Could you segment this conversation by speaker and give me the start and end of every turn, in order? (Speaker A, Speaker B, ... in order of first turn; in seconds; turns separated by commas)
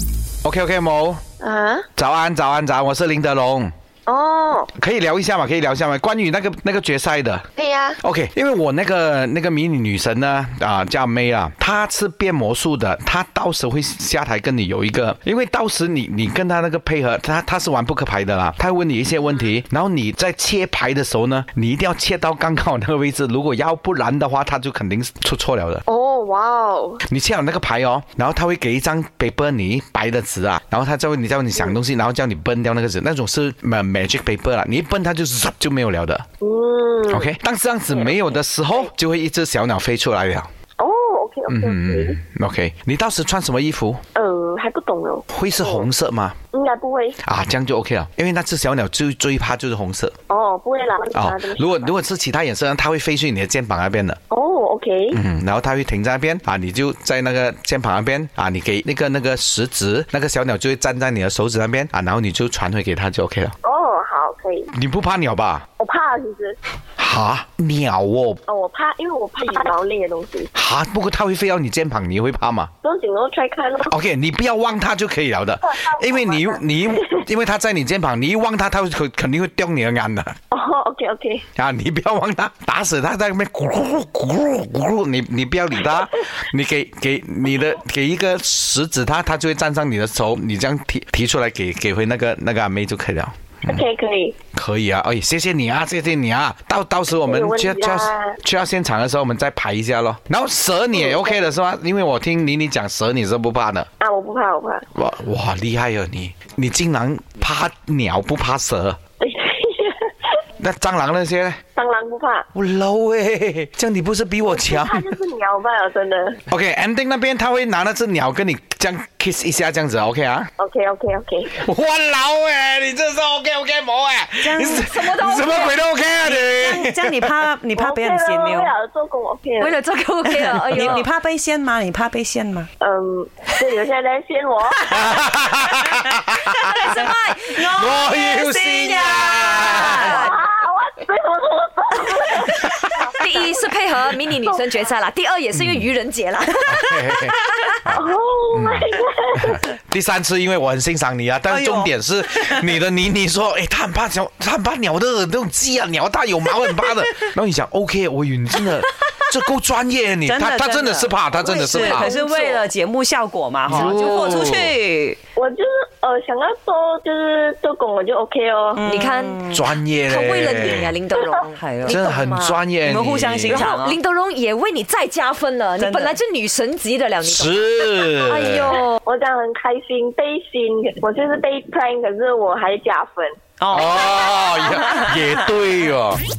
Speaker A: 0.4-1.2, Speaker B: 1.4-1.9, Speaker A: 1.9-3.7, Speaker B: 4.1-4.7, Speaker A: 4.7-7.5, Speaker B: 7.6-8.0, Speaker A: 8.0-25.8, Speaker B: 25.9-27.0, Speaker A: 27.1-36.2, Speaker B: 36.4-37.3, Speaker A: 37.1-40.5, Speaker B: 37.9-38.9, Speaker B: 40.8-42.2, Speaker A: 41.5-44.0, Speaker B: 44.1-45.9, Speaker A: 45.3-46.4, Speaker B: 46.5-47.2, Speaker A: 47.2-50.1, Speaker B: 50.3-51.9, Speaker A: 51.1-54.2, Speaker B: 54.3-55.2, Speaker A: 55.1-63.5, Speaker B: 63.6-64.7, Speaker A: 64.7-65.6, Speaker B: 65.8-66.6, Speaker A: 67.0-68.4, Speaker B: 68.5-70.5, Speaker A: 70.5-72.7, Speaker B: 72.8-73.9, Speaker A: 73.8-80.3, Speaker B: 75.6-77.2, Speaker B: 80.5-81.4, Speaker A: 81.5-93.8, Speaker B: 93.7-94.3, Speaker A: 94.5-103.9, Speaker B: 97.2-98.4, Speaker B: 100.9-101.4, Speaker B: 104.0-104.8, Speaker A: 104.9-109.0, Speaker B: 109.2-110.3, Speaker A: 110.6-111.6, Speaker B: 111.7-112.5, Speaker A: 112.5-115.1, Speaker B: 114.5-116.4, Speaker A: 116.5-120.5, Speaker B: 120.6-121.6, Speaker A: 121.5-127.3, Speaker C: 124.4-124.9, Speaker D: 124.7-125.8, Speaker C: 126.2-128.7, Speaker B: 127.8-129.7, Speaker D: 129.6-131.1, Speaker C: 130.2-132.7, Speaker B: 132.8-135.3, Speaker A: 134.9-137.1, Speaker C: 135.9-140.3, Speaker D: 136.6-137.6, Speaker A: 137.6-140.3, Speaker D: 139.6-140.3, Speaker B: 140.0-143.6, Speaker A: 142.4-143.0, Speaker D: 143.1-147.8, Speaker A: 145.5-145.8, Speaker A: 146.7-162.1, Speaker B: 147.8-149.7, Speaker C: 151.5-151.9, Speaker C: 160.2-165.2, Speaker D: 161.4-162.7, Speaker A: 163.7-164.8, Speaker B: 165.3-168.8, Speaker C: 168.8-169.6, Speaker D: 168.8-169.6, Speaker A: 169.5-171.0, Speaker D: 170.1-172.6, Speaker C: 171.5-172.0, Speaker A: 171.8-173.7, Speaker C: 172.8-174.0, Speaker D: 173.5-179.0, Speaker C: 175.8-176.2, Speaker A: 177.2-178.7, Speaker B: 178.3-183.3, Speaker C: 183.6-185.3, Speaker A: 183.7-186.2